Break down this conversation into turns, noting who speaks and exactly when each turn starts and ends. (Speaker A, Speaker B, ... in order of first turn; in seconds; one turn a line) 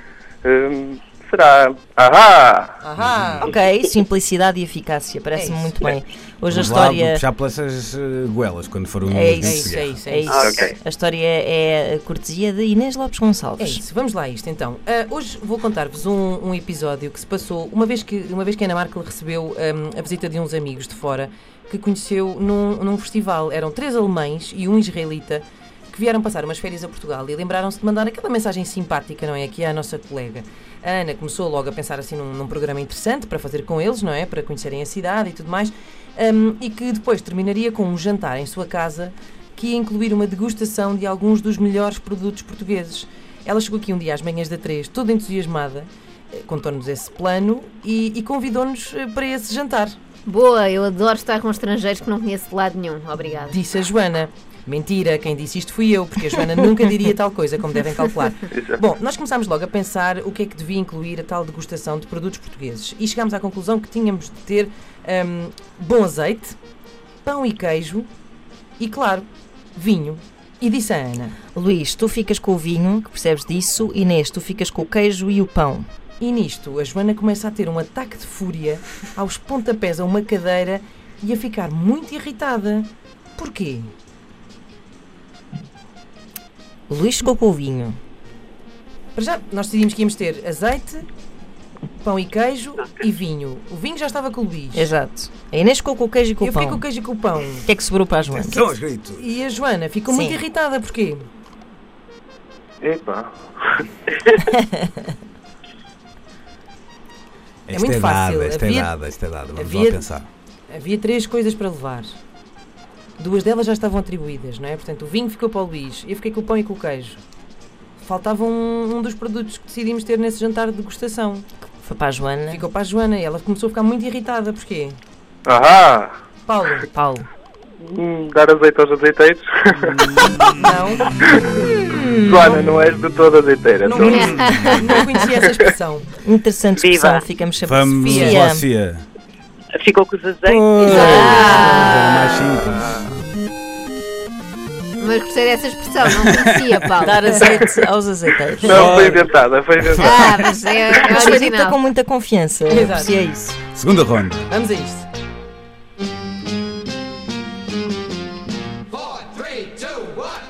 Speaker A: 0.4-2.8
Speaker B: 2.8-3.5
Speaker C: 3.0-3.5
Speaker D: 3.4-7.2
Speaker B: 5.3-6.0
Speaker C: 6.5-9.9
Speaker D: 9.1-13.8
Speaker B: 9.4-10.4
Speaker E: 10.3-10.7
Speaker A: 10.3-10.7
Speaker B: 13.6-50.0
Speaker F: 50.3-53.6
Speaker B: 53.4-66.6
Speaker A: 58.5-58.8
Speaker B: 67.2-68.1
Speaker B: 68.8-71.4
Speaker D: 71.5-75.9
Speaker B: 76.2-83.9
Speaker D: 86.9-88.0
Speaker B: 89.2-91.1
Speaker B: 92.0-94.9
Speaker D: 94.7-96.8
Speaker B: 96.4-97.7
Speaker D: 97.7-98.7
Speaker C: 98.3-99.2
Speaker B: 99.2-101.3
Speaker D: 100.1-100.4
Speaker A: 102.8-103.8
Speaker C: 107.7-110.3
Speaker B: 107.7-108.9
Speaker B: 109.5-110.0
Speaker B: 110.7-112.1
Speaker B: 113.2-117.2
Speaker B: 118.0-121.5
Speaker D: 121.8-122.6
Speaker B: 122.5-125.0
Speaker A: 125.5-126.2
Speaker B: 126.5-126.9
Speaker D: 126.9-127.3
Speaker A: 127.8-130.6
Speaker B: 130.6-131.1
Speaker A: 131.2-131.6
Speaker D: 131.5-132.5
Speaker A: 132.2-135.7
Speaker B: 133.8-136.1
Speaker F: 134.0-135.1
Speaker C: 134.3-134.7
Speaker D: 136.2-138.7
Speaker E: 136.8-137.3
Speaker C: 137.6-139.1
Speaker B: 138.0-138.4
Speaker E: 139.8-141.5
Speaker C: 140.5-143.2
Speaker D: 140.8-142.0
Speaker F: 140.9-142.3
Speaker B: 141.0-141.8
Speaker A: 142.7-143.0
Speaker F: 145.0-147.5
Speaker C: 146.0-146.7
Speaker D: 147.0-149.2
Speaker B: 147.3-147.7
Speaker A: 148.6-151.2
Speaker C: 148.7-149.2
Speaker C: 149.8-150.6
Speaker F: 150.0-151.8
Speaker D: 151.0-153.6
Speaker B: 152.7-153.1
Speaker C: 153.8-154.5
Speaker B: 154.5-155.1